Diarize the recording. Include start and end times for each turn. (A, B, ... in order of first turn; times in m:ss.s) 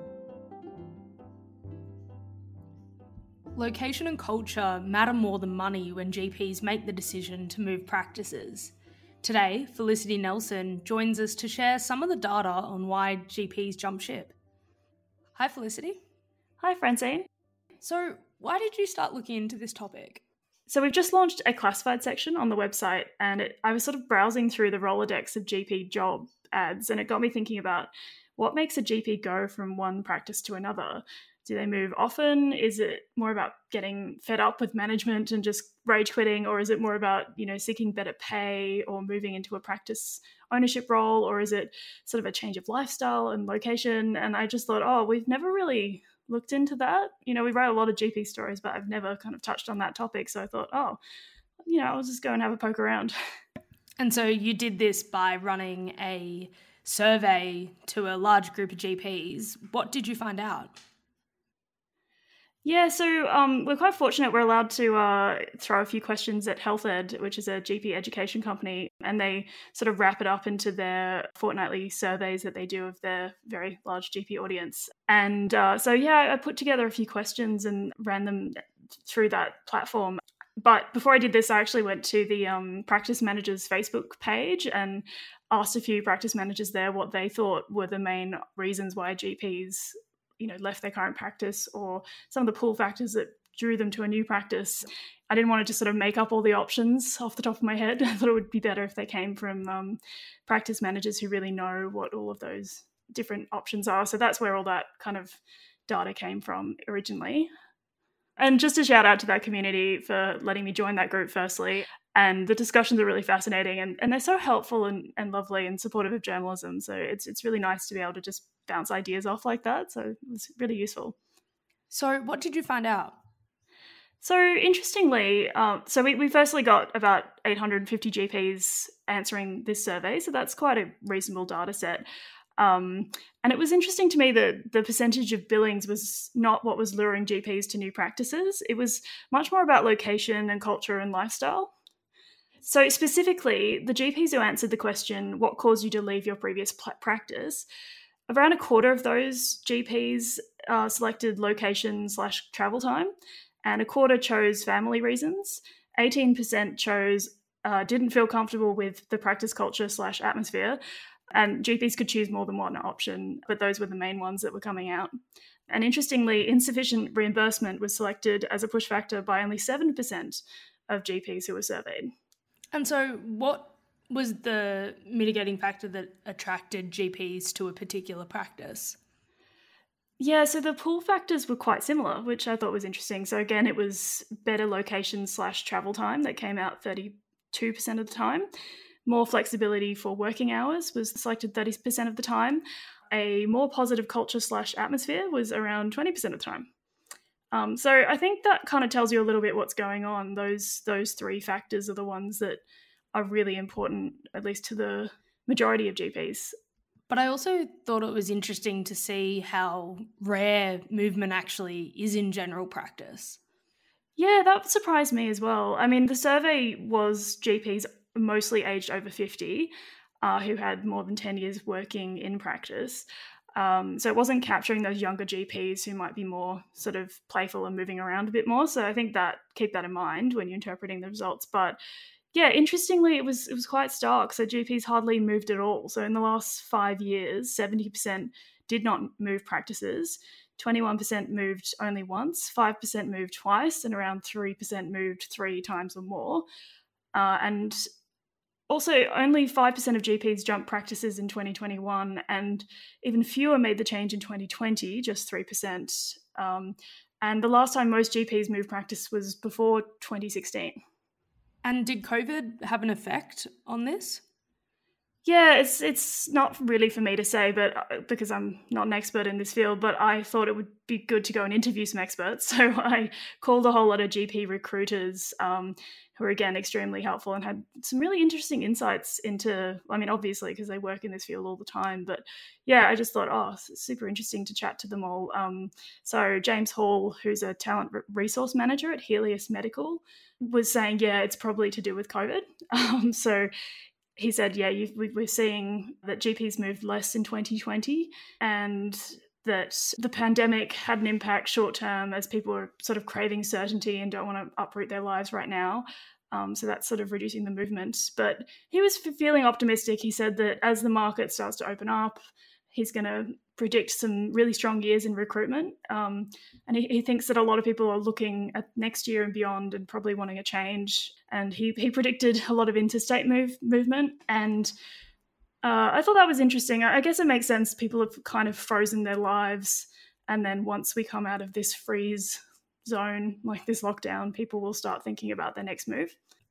0:03.6-0:14.4 A
0:15.4-0:16.0 A
0:16.6-0:17.3 B
0:17.8-0:20.2 A
0:20.7-0:51.0 B
0:51.6-0:53.2 B
0:54.0-1:00.8 A
1:02.6-1:47.5 B
1:48.4-2:01.2 B
2:01.9-2:03.2 A
2:04.2-2:12.0 B
2:12.6-2:21.7 B
2:22.6-2:27.7 B
2:28.3-2:33.1 B
2:33.6-2:40.8 B
2:41.3-2:45.1 B
2:45.7-2:52.1 B
2:52.7-2:59.0 A
3:00.2-3:08.5 B
3:09.1-3:16.7 B
3:17.5-3:22.6 B
3:23.1-3:26.5 B
3:27.1-3:33.4 A
3:34.2-3:51.8 B
3:52.3-4:06.5 B
4:07.1-4:07.8 B
4:08.7-4:20.8 B
4:21.6-4:24.2 A
4:25.2-4:53.5 B
4:54.2-5:12.2 B
5:12.7-5:24.7 B
5:25.6-5:36.2 B